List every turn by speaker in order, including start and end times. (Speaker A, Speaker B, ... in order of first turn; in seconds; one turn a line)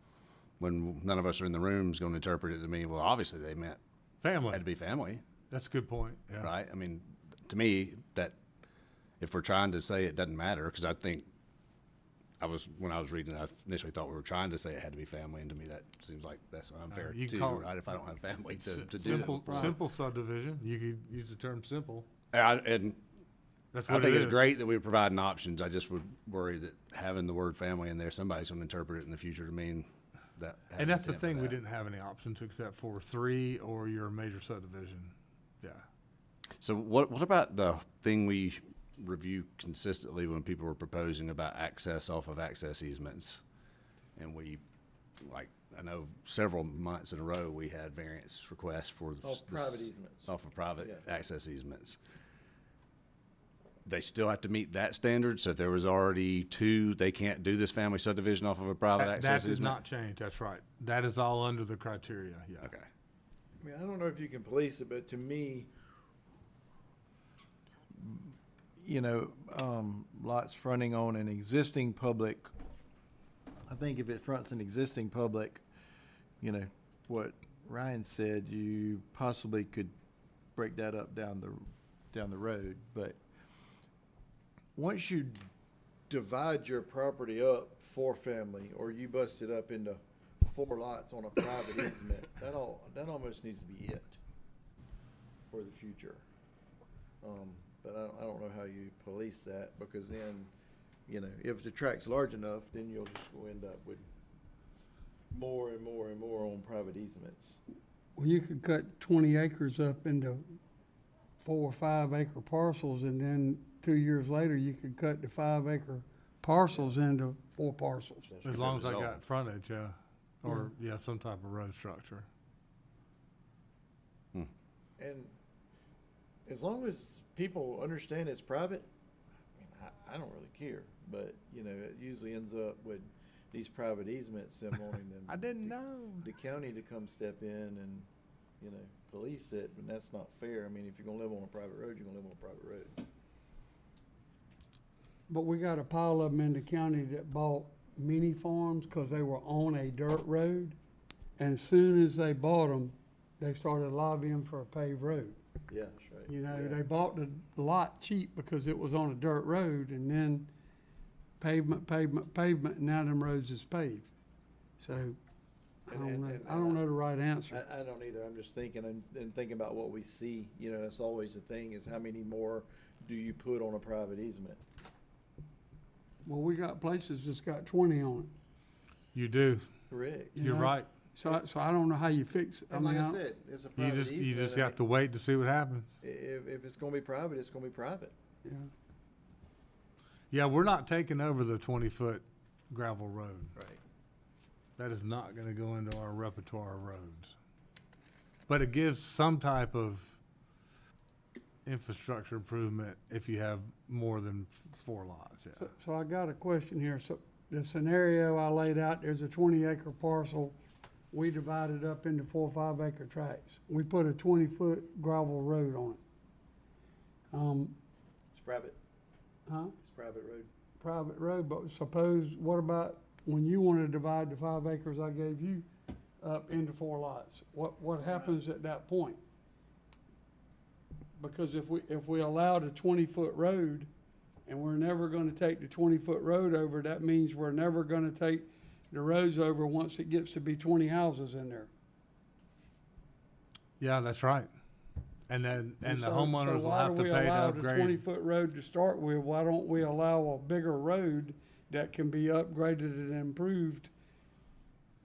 Speaker A: 0.6-3.8
Speaker B: 4.2-4.6
Speaker A: 4.5-5.2
Speaker B: 5.5-6.5
Speaker A: 6.4-8.3
Speaker A: 9.2-11.3
Speaker A: 12.4-19.8
Speaker B: 16.9-17.8
Speaker B: 18.6-22.1
Speaker C: 19.2-19.6
Speaker A: 22.3-23.0
Speaker B: 23.7-24.4
Speaker A: 23.9-31.6
Speaker B: 30.8-35.8
Speaker A: 36.6-43.4
Speaker A: 44.1-44.6
Speaker A: 45.2-52.0
Speaker D: 49.2-51.0
Speaker A: 53.9-59.8
Speaker B: 58.9-62.7
Speaker D: 63.6-65.7
Speaker D: 67.9-72.5
Speaker D: 73.7-75.6
Speaker D: 76.4-79.9
Speaker D: 80.5-83.2
Speaker D: 84.8-85.5
Speaker D: 86.1-94.2
Speaker D: 95.5-96.2
Speaker D: 97.2-100.5
Speaker D: 101.1-104.0
Speaker D: 105.3-107.6
Speaker C: 108.2-110.6
Speaker C: 111.4-118.3
Speaker D: 116.7-117.0
Speaker D: 118.3-119.0
Speaker B: 118.4-122.3
Speaker A: 118.5-119.2
Speaker D: 125.0-125.3
Speaker D: 126.5-128.9
Speaker D: 129.6-138.1
Speaker B: 135.3-136.3
Speaker D: 138.6-142.9
Speaker C: 145.3-150.8
Speaker C: 151.4-155.4
Speaker D: 155.7-156.8
Speaker C: 156.3-160.5
Speaker C: 161.4-164.1
Speaker C: 164.8-165.2
Speaker C: 165.9-167.6
Speaker D: 165.9-166.8
Speaker D: 167.5-174.6
Speaker C: 176.2-178.3
Speaker B: 179.1-179.7
Speaker D: 179.9-180.3
Speaker C: 180.3-183.2
Speaker B: 180.4-180.9
Speaker D: 182.7-184.8
Speaker B: 183.8-185.9
Speaker D: 186.0-188.1
Speaker C: 188.4-188.7
Speaker B: 190.3-193.5
Speaker D: 193.5-193.8
Speaker B: 194.8-197.3
Speaker B: 198.5-200.2
Speaker B: 201.7-205.7
Speaker C: 205.6-210.6
Speaker C: 211.1-216.0
Speaker C: 217.3-217.8
Speaker D: 218.3-218.8
Speaker C: 219.5-219.7
Speaker D: 219.8-220.5
Speaker C: 220.8-225.7
Speaker C: 226.2-229.2
Speaker D: 228.1-228.4
Speaker C: 231.2-233.9
Speaker C: 234.5-241.7
Speaker B: 243.8-244.5
Speaker B: 245.3-248.0
Speaker C: 245.8-253.9